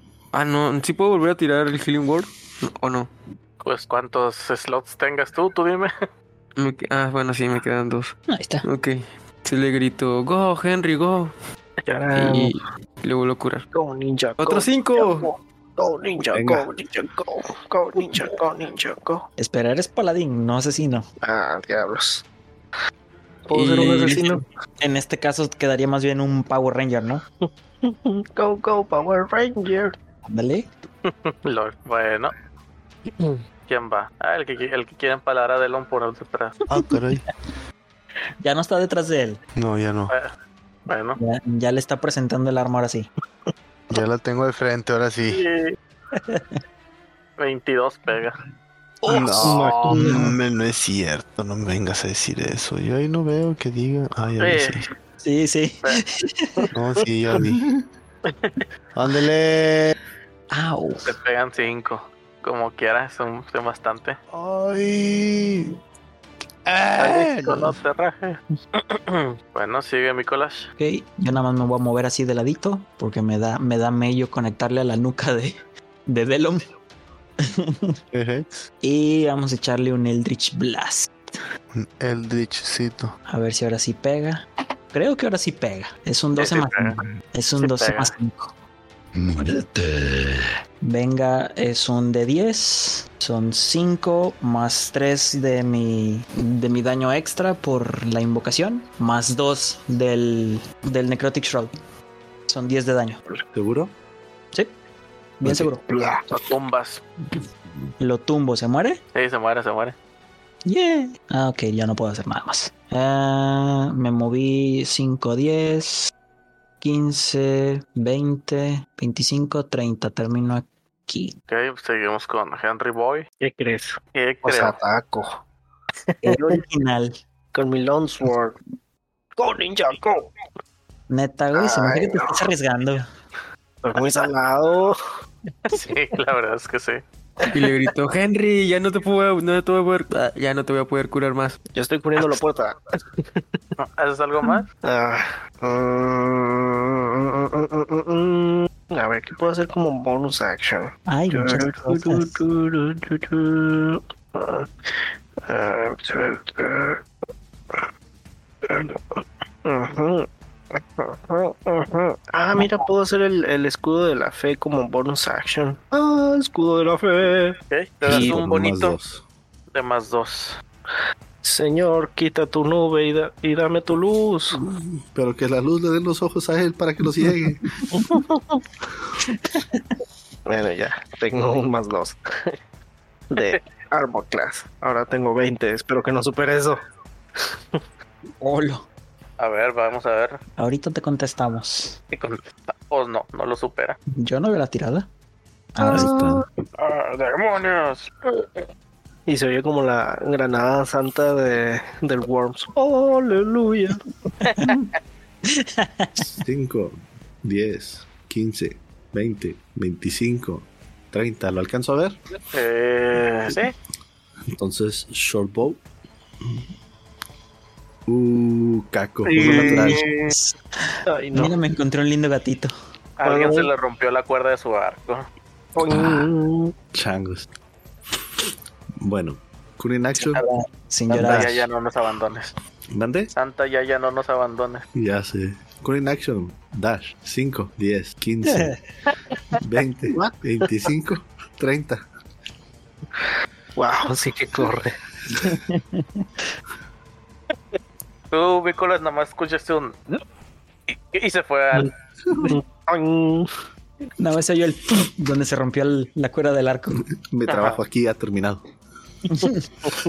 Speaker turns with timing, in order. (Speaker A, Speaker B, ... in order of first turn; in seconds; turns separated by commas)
Speaker A: 0.3-3.1, Speaker B: 3.6-5.9, Speaker A: 6.6-11.3, Speaker C: 8.3-8.7, Speaker D: 11.8-12.6, Speaker A: 12.1-13.7, Speaker D: 13.7-19.3, Speaker A: 14.4-15.3, Speaker E: 16.3-16.7, Speaker C: 19.4-21.1, Speaker D: 21.2-22.2, Speaker D: 23.5-24.4, Speaker A: 23.5-24.4, Speaker C: 24.8-27.2, Speaker D: 27.8-30.0, Speaker C: 30.2-30.7, Speaker B: 31.1-32.3, Speaker B: 33.7-36.5, Speaker F: 36.7-37.3, Speaker C: 38.4-39.4, Speaker F: 39.6-40.1, Speaker B: 40.9-41.2, Speaker C: 41.2-43.1, Speaker F: 43.9-45.5, Speaker B: 45.3-45.8, Speaker C: 46.1-46.6, Speaker B: 47.4-48.4, Speaker F: 49.1-54.9, Speaker D: 49.2-50.3, Speaker B: 49.4-49.9, Speaker C: 50.0-50.3, Speaker B: 54.4-54.8, Speaker C: 55.2-56.7, Speaker F: 56.7-57.7, Speaker F: 59.0-60.0, Speaker C: 60.5-61.1, Speaker B: 61.0-64.2, Speaker F: 64.3-65.7, Speaker F: 66.7-67.8, Speaker B: 67.0-70.7, Speaker C: 70.8-76.7, Speaker C: 77.4-78.0, Speaker F: 78.1-78.5, Speaker C: 78.8-81.1, Speaker F: 81.7-83.2, Speaker C: 83.3-88.5, Speaker B: 86.4-87.0, Speaker B: 87.6-88.1, Speaker C: 89.4-89.7, Speaker C: 90.8-101.7, Speaker C: 102.5-103.2, Speaker E: 103.5-103.9, Speaker C: 105.4-105.8, Speaker E: 105.5-105.7, Speaker D: 105.9-106.5, Speaker B: 106.4-107.0, Speaker C: 108.0-109.0, Speaker B: 109.1-110.0, Speaker C: 110.7-116.1, Speaker C: 116.8-121.4, Speaker B: 121.5-123.3, Speaker D: 123.4-125.4, Speaker B: 124.1-124.8, Speaker D: 126.1-126.6, Speaker C: 126.2-127.2, Speaker D: 127.5-128.6, Speaker D: 129.4-130.3, Speaker C: 131.1-133.1, Speaker D: 131.5-132.5, Speaker D: 133.8-135.0, Speaker B: 135.7-137.0, Speaker A: 137.5-141.6, Speaker D: 141.8-143.4, Speaker B: 143.8-144.7, Speaker D: 144.8-157.1, Speaker C: 151.1-152.4, Speaker D: 158.6-168.4, Speaker B: 167.7-169.0, Speaker E: 168.1-169.2, Speaker B: 169.7-170.6, Speaker D: 171.4-174.6, Speaker E: 174.6-177.7, Speaker D: 177.9-178.6, Speaker C: 179.3-179.9, Speaker D: 180.5-182.6, Speaker D: 183.3-186.8, Speaker D: 187.4-187.8, Speaker C: 188.4-188.8, Speaker B: 189.4-190.4, Speaker C: 190.6-192.0, Speaker B: 192.1-194.0, Speaker C: 194.2-195.1, Speaker C: 195.8-196.2, Speaker E: 195.8-196.4, Speaker B: 196.8-198.3, Speaker D: 199.3-204.0, Speaker B: 204.4-204.7, Speaker C: 204.5-204.8, Speaker C: 205.4-206.4, Speaker E: 206.3-212.2, Speaker B: 212.5-213.8, Speaker E: 214.5-215.8, Speaker E: 218.1-220.0, Speaker B: 219.3-220.3, Speaker C: 219.3-222.7, Speaker D: 221.1-221.6, Speaker B: 223.2-225.3, Speaker D: 223.2-223.7, Speaker D: 225.8-226.8, Speaker E: 225.8-226.3, Speaker E: 226.9-227.5, Speaker E: 229.0-230.4, Speaker C: 230.4-231.7, Speaker B: 231.1-232.5, Speaker E: 231.1-231.5, Speaker E: 232.9-233.3, Speaker B: 233.3-234.8, Speaker E: 234.9-238.8, Speaker C: 238.5-238.8, Speaker E: 239.6-242.1, Speaker D: 240.1-240.4, Speaker D: 243.8-245.0, Speaker C: 245.4-246.3, Speaker B: 248.3-250.0, Speaker B: 250.9-251.9, Speaker E: 252.3-252.6, Speaker D: 252.4-253.5, Speaker C: 254.2-257.0, Speaker E: 257.2-258.6, Speaker B: 257.5-257.8, Speaker C: 259.3-259.7